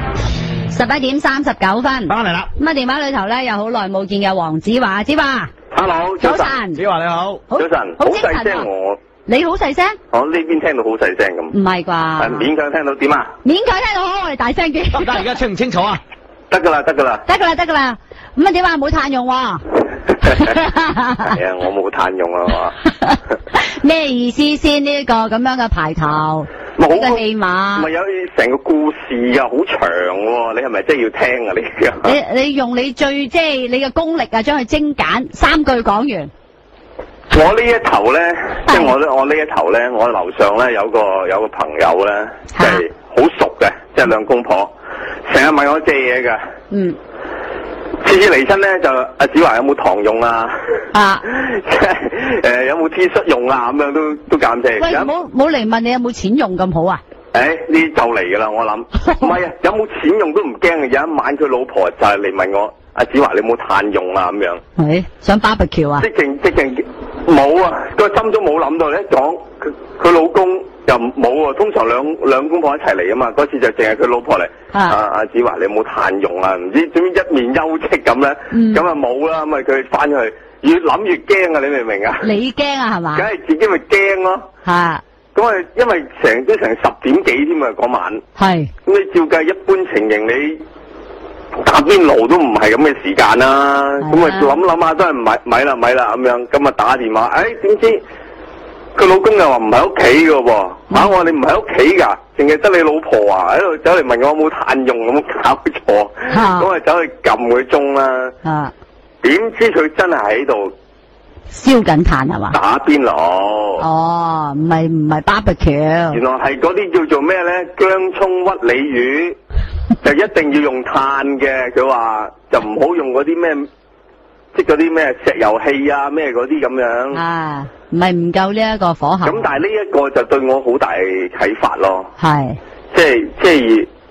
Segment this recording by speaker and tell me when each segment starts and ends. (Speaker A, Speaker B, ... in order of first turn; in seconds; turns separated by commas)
Speaker A: 0.7-5.5, Speaker B: 2.1-2.5, Speaker C: 5.7-6.6, Speaker A: 6.2-6.8, Speaker B: 6.8-7.4, Speaker A: 7.5-8.7, Speaker C: 7.5-9.0, Speaker A: 9.3-10.0, Speaker C: 10.1-11.6, Speaker A: 11.5-12.5, Speaker C: 12.2-13.3, Speaker A: 13.4-15.3, Speaker B: 15.0-16.0, Speaker C: 16.5-17.2, Speaker A: 17.3-19.6, Speaker A: 20.2-21.4, Speaker C: 21.2-22.8, Speaker A: 23.0-27.9, Speaker C: 26.8-32.2, Speaker A: 32.0-36.3, Speaker C: 37.3-44.7, Speaker A: 38.7-38.9, Speaker A: 42.5-42.8, Speaker C: 45.3-46.4, Speaker A: 46.7-47.0, Speaker C: 48.0-50.5, Speaker A: 50.9-51.2, Speaker C: 51.2-55.1, Speaker A: 54.8-57.0, Speaker C: 57.3-64.6, Speaker A: 64.8-66.1, Speaker C: 66.0-82.3, Speaker A: 74.7-75.0, Speaker A: 78.5-78.8, Speaker A: 82.2-83.3, Speaker C: 83.2-84.5, Speaker A: 84.7-85.0, Speaker C: 85.3-88.2, Speaker A: 88.4-88.7, Speaker C: 88.8-90.6, Speaker C: 91.6-98.0, Speaker A: 94.0-94.5, Speaker C: 99.0-108.3, Speaker A: 106.3-106.7, Speaker A: 108.4-108.7, Speaker C: 109.2-110.7, Speaker A: 111.5-112.6, Speaker C: 112.5-113.9, Speaker A: 113.8-116.2, Speaker C: 116.1-119.4, Speaker C: 120.0-123.7, Speaker C: 124.5-127.2, Speaker A: 127.1-129.6, Speaker C: 129.2-132.1, Speaker A: 132.2-132.6, Speaker C: 132.9-133.9